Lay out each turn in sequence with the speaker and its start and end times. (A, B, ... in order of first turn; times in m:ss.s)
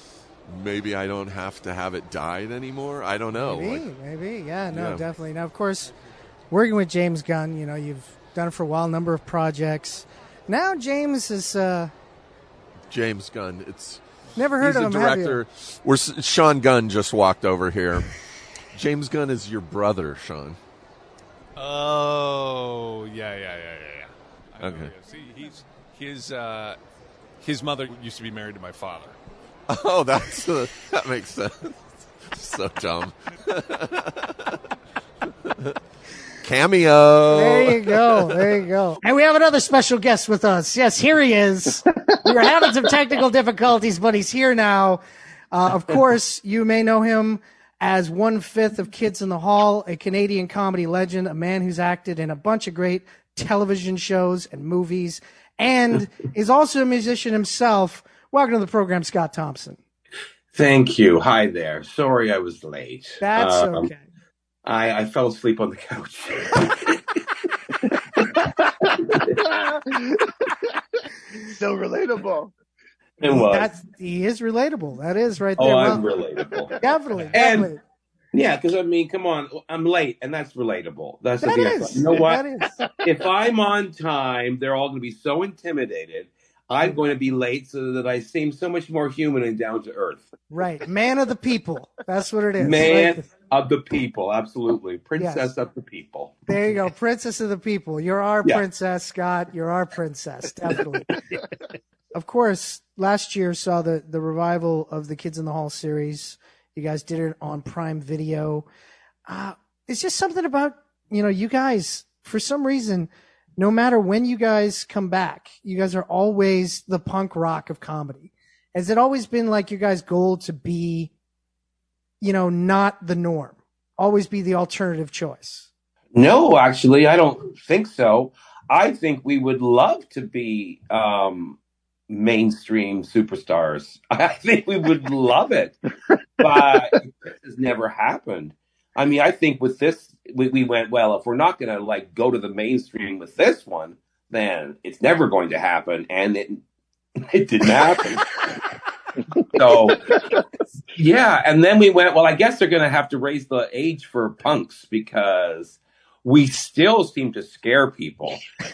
0:00.4-0:03.8 A
0:03.3-0:06.0 B
0:04.7-0:05.0 A
0:06.5-0:11.9 B
0:12.9-0:14.0 A
0:14.4-0:15.4 B
0:14.6-0:18.1 A
0:18.7-0:20.6 A
0:21.6-0:26.8 C
0:24.6-0:24.9 A
0:27.4-0:29.2 C
0:29.7-0:34.5 A
0:35.5-0:35.7 A
0:36.4-0:38.4 A
0:37.3-0:59.8 B
1:00.5-1:03.9 D
1:03.2-1:04.0 B
1:04.6-1:07.0 D
1:08.0-1:08.4 D
1:09.4-1:10.5 E
1:11.4-1:12.5 E
1:13.2-1:13.7 D
1:13.2-1:16.0 B
1:15.6-1:16.7 D
1:16.8-1:17.8 B
1:17.3-1:17.7 D
1:18.3-1:22.4 D
1:21.4-1:22.8 B
1:23.0-1:30.3 D
1:30.5-1:33.3 B
1:32.6-1:36.4 D
1:35.2-1:35.5 B
1:36.4-1:41.2 B
1:42.1-1:48.7 B
1:49.2-2:01.1 B
2:02.2-2:05.7 B
2:06.1-2:11.6 D
2:12.1-2:15.8 D
2:16.4-2:26.6 D
2:27.2-2:28.6 D
2:29.5-2:30.0 D
2:31.0-2:38.4 D